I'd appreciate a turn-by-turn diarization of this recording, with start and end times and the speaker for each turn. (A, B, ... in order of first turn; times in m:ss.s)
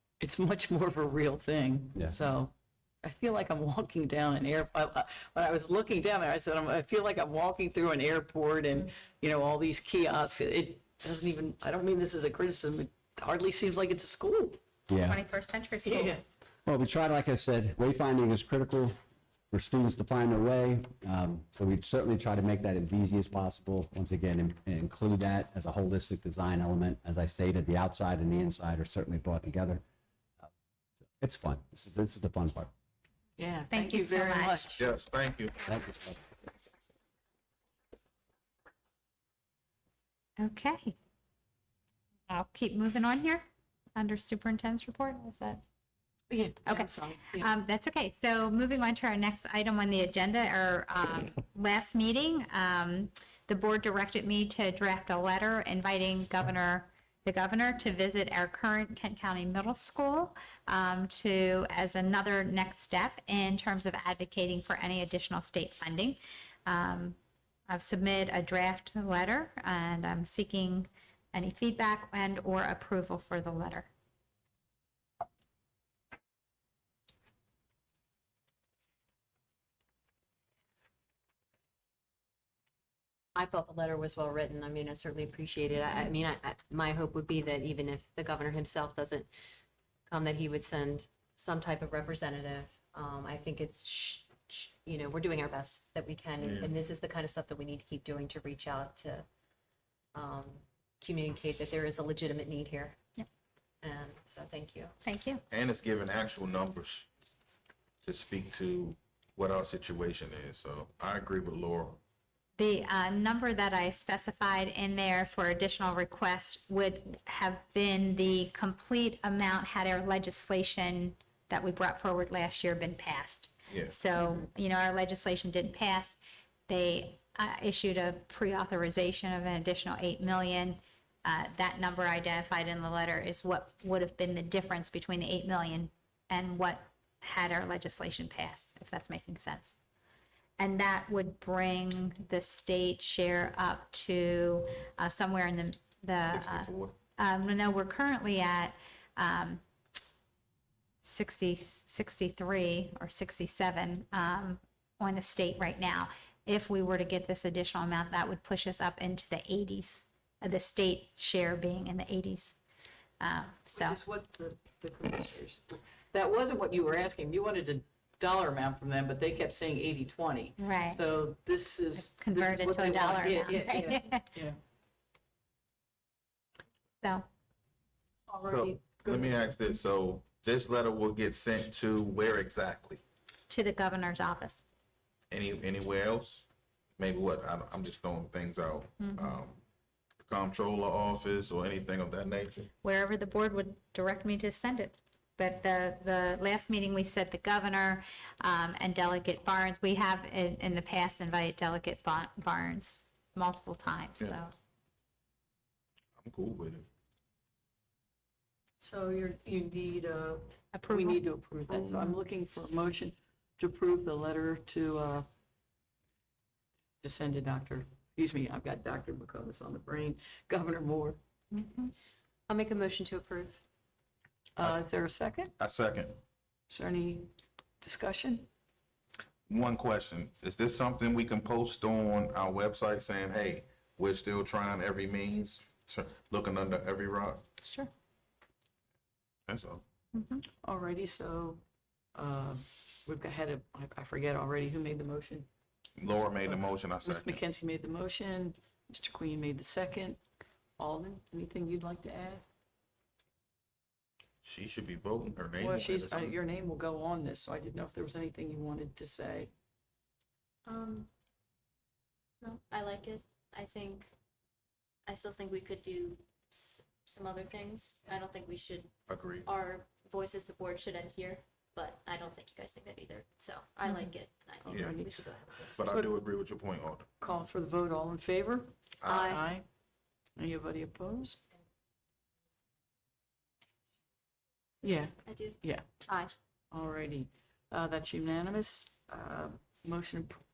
0:00.2-0:14.6 A
0:14.9-0:15.2 B
0:15.1-0:16.2 C
0:15.8-0:16.2 A
0:16.6-0:19.0 B
0:19.5-0:29.8 B
0:31.2-0:32.7 B
0:33.4-0:34.8 A
0:33.7-0:34.6 C
0:34.8-0:35.6 D
0:35.6-0:36.2 B
0:40.4-0:40.9 C
0:42.3-0:43.4 C
0:44.0-0:45.6 C
0:46.3-0:47.4 A
0:46.6-1:07.2 C
1:07.7-1:13.9 C
1:23.3-1:29.3 E
1:30.1-1:39.2 E
1:36.4-1:36.8 D
1:40.1-1:43.0 E
1:43.8-1:44.9 E
1:45.0-1:45.4 C
1:45.5-1:47.1 D
1:48.0-1:52.0 D
1:52.6-2:19.7 C
2:03.7-2:04.0 D
2:20.6-2:29.6 C
2:26.2-2:27.0 D
2:31.0-2:42.6 C
2:43.2-2:44.0 C
2:43.7-2:54.6 A
2:50.6-2:51.0 C
2:52.0-2:54.2 C
2:58.3-2:59.4 A
2:58.5-3:03.0 D
3:03.5-3:04.6 C
3:05.3-3:06.5 D
3:07.0-3:09.6 D
3:09.0-3:09.4 C
3:10.2-3:12.7 D
3:12.8-3:24.5 C
3:26.2-3:26.8 D
3:28.8-3:35.2 A
3:30.7-3:31.2 C
3:31.9-3:32.1 C
3:37.0-3:41.2 A
3:41.5-3:41.9 C
3:42.5-3:43.6 E
3:44.6-3:45.5 A
3:44.6-3:44.8 D
3:45.6-3:46.2 D
3:46.7-3:48.4 A
3:49.5-3:57.4 D
3:57.6-3:57.9 C
3:59.5-3:59.8 D
4:00.1-4:00.4 C
4:00.6-4:01.6 A
4:02.1-4:05.5 A
4:06.0-4:07.4 D
4:06.1-4:10.2 A
4:10.8-4:12.4 A
4:14.4-4:16.4 D
4:15.6-4:19.5 A
4:20.6-4:21.1 F
4:22.4-4:24.1 F
4:25.1-4:35.8 F
4:29.1-4:29.5 D
4:34.6-4:35.2 A
4:34.7-4:35.0 D
4:35.8-4:37.1 D
4:37.2-4:39.6 A
4:39.0-4:39.3 D
4:40.4-4:41.4 A
4:44.8-4:45.9 A
4:45.2-4:46.3 F
4:46.7-4:50.4 A